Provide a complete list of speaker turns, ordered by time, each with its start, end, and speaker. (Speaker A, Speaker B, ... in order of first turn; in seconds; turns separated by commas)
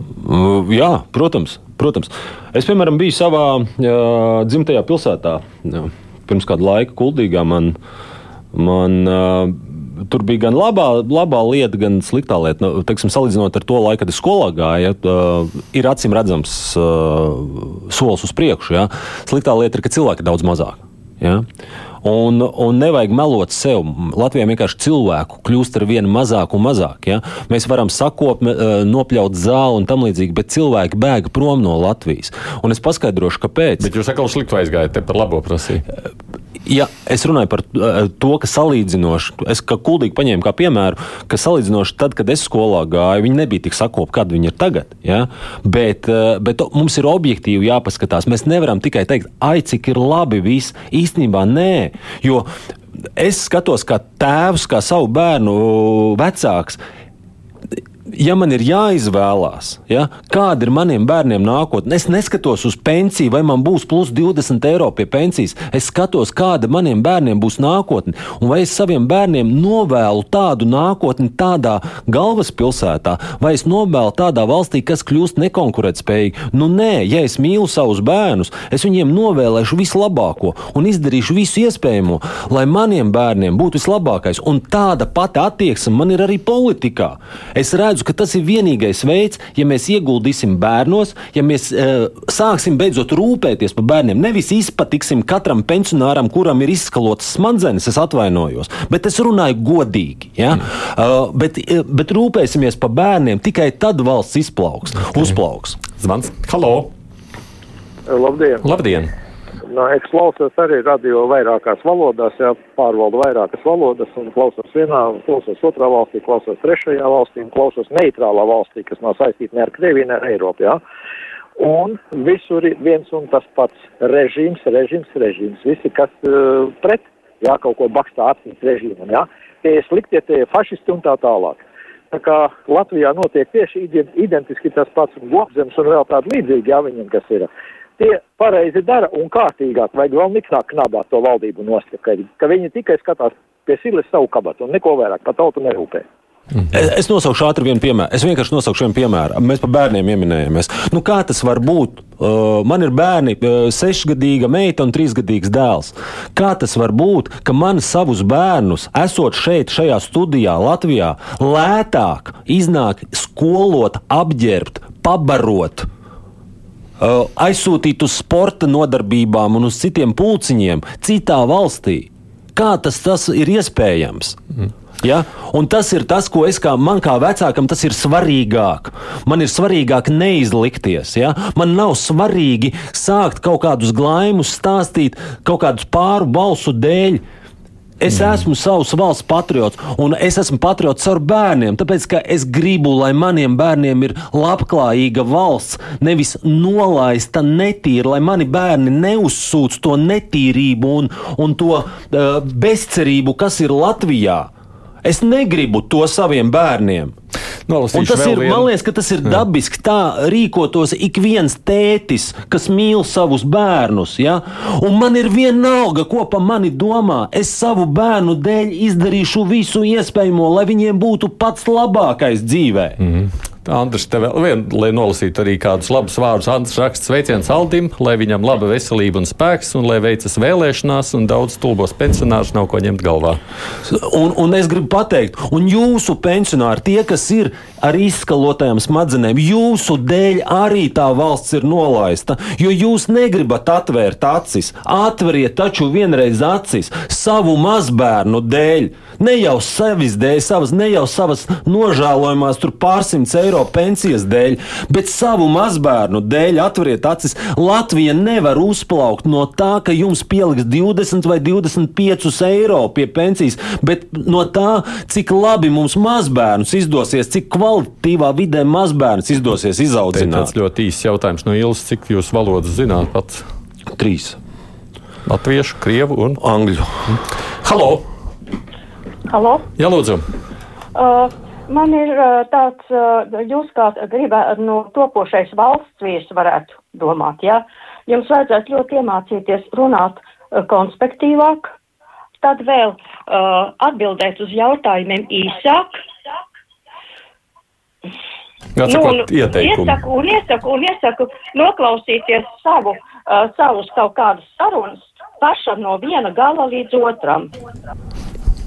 Speaker A: 0.2-7.8, Speaker A: 8.5-21.5, Speaker A: 22.0-33.9, Speaker B: 33.8-35.9, Speaker A: 36.6-52.5, Speaker A: 53.2-56.8, Speaker A: 58.1-105.8, Speaker B: 106.0-106.9, Speaker C: 108.1-108.6, Speaker B: 108.6-109.1, Speaker C: 109.7-120.8, Speaker C: 121.6-146.1, Speaker A: 146.7-165.9, Speaker A: 167.0-174.4, Speaker A: 175.0-187.2, Speaker A: 188.0-204.5, Speaker A: 205.0-207.1, Speaker B: 207.7-208.7, Speaker A: 207.9-223.0, Speaker B: 223.0-233.4, Speaker A: 233.9-270.5, Speaker B: 270.1-273.5, Speaker A: 274.0-274.4, Speaker B: 275.2-276.4, Speaker A: 276.4-276.9, Speaker B: 277.1-278.1, Speaker D: 279.3-279.7, Speaker B: 279.8-280.2, Speaker D: 280.9-291.7, Speaker D: 292.4-296.0, Speaker B: 298.8-300.1, Speaker D: 298.9-307.5